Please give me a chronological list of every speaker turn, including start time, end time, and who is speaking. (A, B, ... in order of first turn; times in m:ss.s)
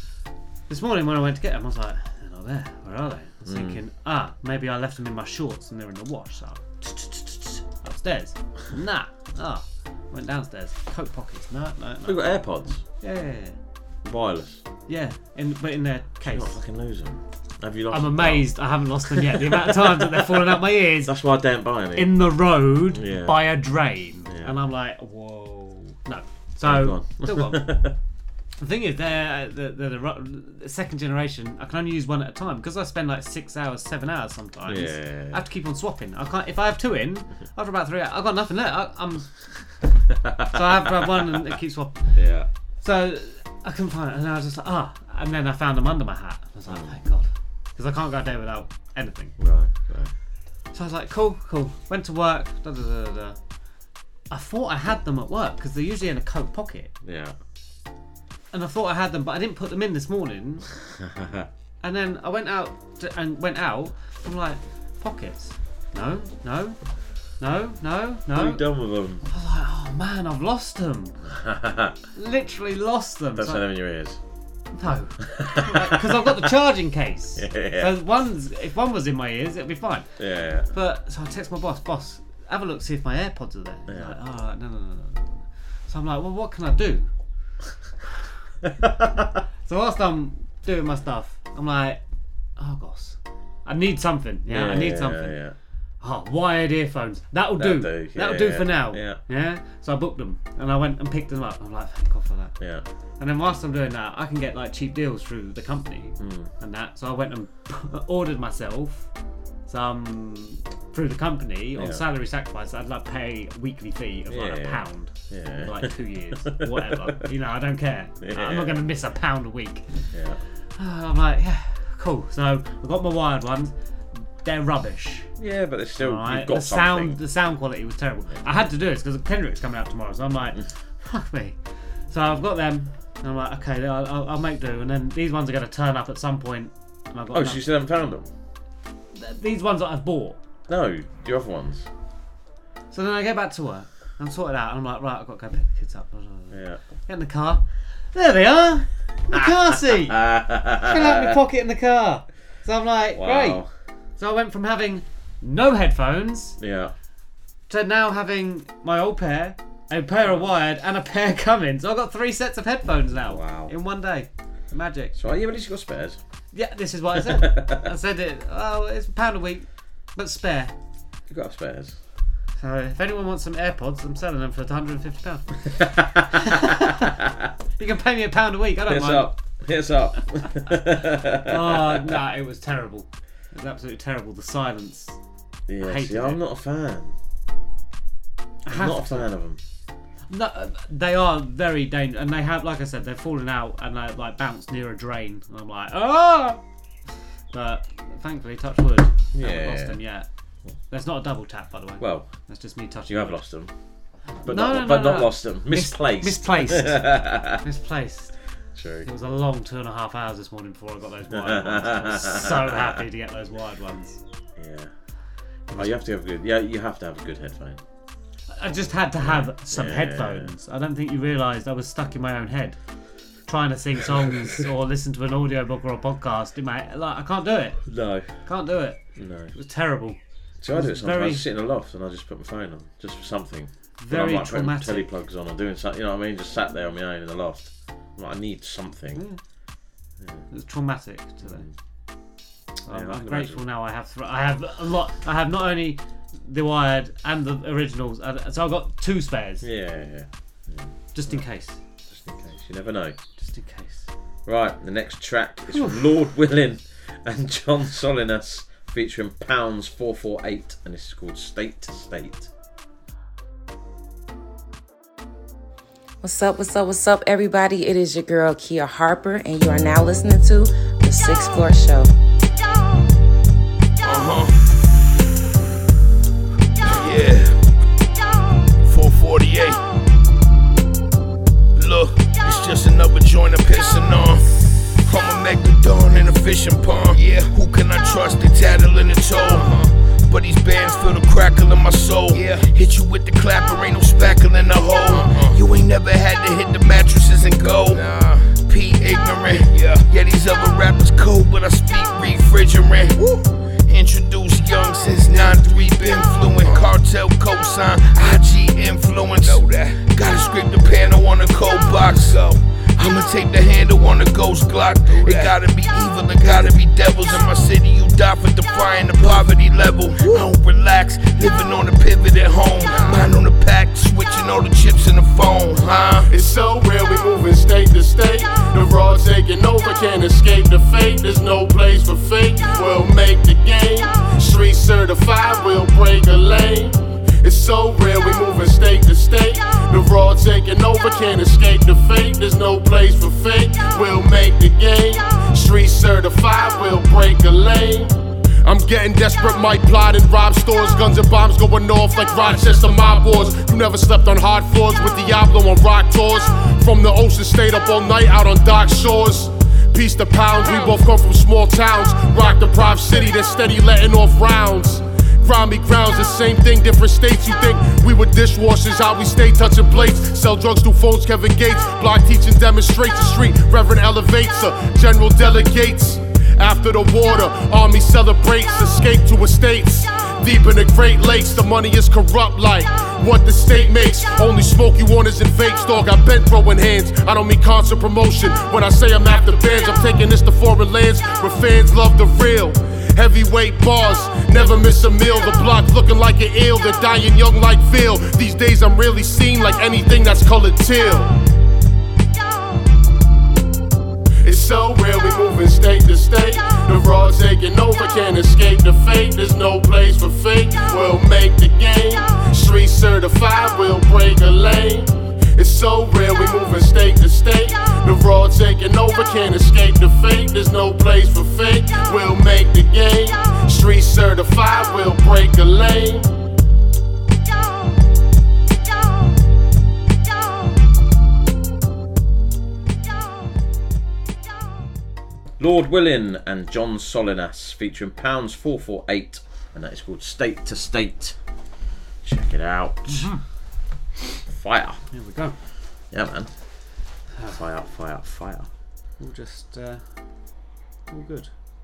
0:00.7-0:12.2 A
0:03.4-0:03.8 B
0:12.1-0:12.8 B
0:13.0-0:13.6 A
0:14.0-0:14.6 B
0:14.9-0:16.6 A
0:16.2-0:18.5 B
0:17.9-0:21.1 A
0:19.1-0:22.1 B
0:22.0-0:27.7 A
0:22.9-0:23.4 B
0:24.3-0:24.5 B
0:26.6-0:28.0 B
0:28.6-0:39.5 A
0:34.7-0:35.4 B
0:40.2-0:41.3 B
0:40.5-0:42.2 A
0:42.1-0:42.5 B
0:42.8-0:49.4 A
0:46.7-0:47.0 B
0:49.4-0:50.1 B
0:50.7-0:53.4 A
0:54.3-0:56.9 A
0:57.0-0:57.4 B
0:58.5-1:00.7 A
1:01.2-1:01.5 B
1:01.8-1:06.8 A
1:07.4-1:08.6 A
1:08.3-1:09.2 B
1:09.3-1:11.2 A
1:11.3-1:12.0 B
1:12.2-1:13.7 A
1:13.4-1:14.2 B
1:14.8-1:20.1 A
1:15.3-1:16.4 B
1:17.4-1:18.0 B
1:20.2-1:20.7 B
1:20.7-1:27.1 A
1:23.9-1:24.2 B
1:29.6-1:32.0 A
1:32.6-1:35.4 A
1:34.5-1:35.6 B
1:36.0-1:42.6 A
1:37.6-1:39.2 B
1:42.6-1:42.8 B
1:43.2-1:49.1 A
1:46.2-1:46.5 B
1:49.7-2:00.1 A
1:51.8-1:52.0 B
1:54.3-1:57.2 B
1:58.2-1:58.8 B
2:00.1-2:00.4 B
2:00.8-2:05.3 A
2:05.4-2:07.2 B
2:06.0-2:17.6 A
2:17.3-2:18.3 B
2:19.2-2:20.4 A
2:20.7-2:21.9 B
2:22.9-2:30.2 A
2:26.5-2:26.8 B
2:29.3-2:31.4 B
2:30.8-2:33.6 A
2:33.1-2:33.7 B
2:34.2-2:36.6 A
2:36.6-2:36.9 B
2:37.7-2:45.2 A
2:40.2-2:40.5 B
2:43.1-2:43.7 B
2:45.2-2:46.2 B
2:46.5-2:50.7 A
2:47.2-2:47.8 B
2:51.3-2:52.0 B
2:52.6-2:55.7 A
2:55.8-2:56.3 B
2:56.5-2:56.8 A
2:57.8-2:59.3 A
2:58.9-3:02.2 B
3:01.5-3:05.2 A
3:05.7-3:07.2 B
3:05.8-3:06.4 A
3:08.7-3:09.3 A
3:08.7-3:09.6 B
3:10.3-3:16.6 A
3:17.5-3:20.3 A
3:19.3-3:20.0 B
3:20.9-3:23.4 A
3:22.0-3:22.3 B
3:23.1-3:23.7 B
3:24.4-3:27.6 B
3:24.5-3:28.4 A
3:28.8-3:29.1 B
3:29.0-3:34.2 A
3:31.3-3:33.0 B
3:34.6-3:34.9 B
3:35.7-3:36.0 A
3:35.8-3:37.8 B
3:38.6-3:42.8 A
3:39.2-3:40.5 B
3:43.5-3:50.2 A
3:47.9-3:48.4 B
3:49.2-3:49.5 B
3:50.6-3:59.2 B
3:50.7-3:51.5 A
3:54.0-3:55.1 A
4:00.2-4:00.4 B
4:00.5-4:01.7 A
4:01.4-4:01.7 B
4:02.8-4:09.7 A
4:02.9-4:03.6 B
4:09.6-4:11.5 B
4:11.1-4:11.8 A
4:12.0-4:13.2 B
4:13.4-4:14.1 A
4:14.5-4:22.5 B
4:15.7-4:16.1 A
4:26.2-4:32.0 C
4:42.8-4:43.2 D
4:54.2-4:54.5 D
4:55.6-4:56.1 D
4:58.8-4:59.2 D
5:02.6-5:03.1 D
5:04.0-5:04.6 D
5:05.2-5:09.7 D
5:10.2-5:12.3 D
5:13.0-5:13.5 D
5:14.2-5:18.6 D
5:19.3-5:22.2 D
5:23.1-5:26.2 D
5:26.3-5:48.1 E
5:48.6-6:41.3 E
6:44.4-7:06.3 E
7:15.6-7:21.4 B
7:22.2-7:23.3 B
7:23.1-7:23.4 A
7:24.5-7:25.0 B
7:25.1-7:25.6 A
7:26.1-7:26.5 B
7:27.5-7:28.7 B
7:29.2-7:30.1 A
7:31.1-7:31.5 A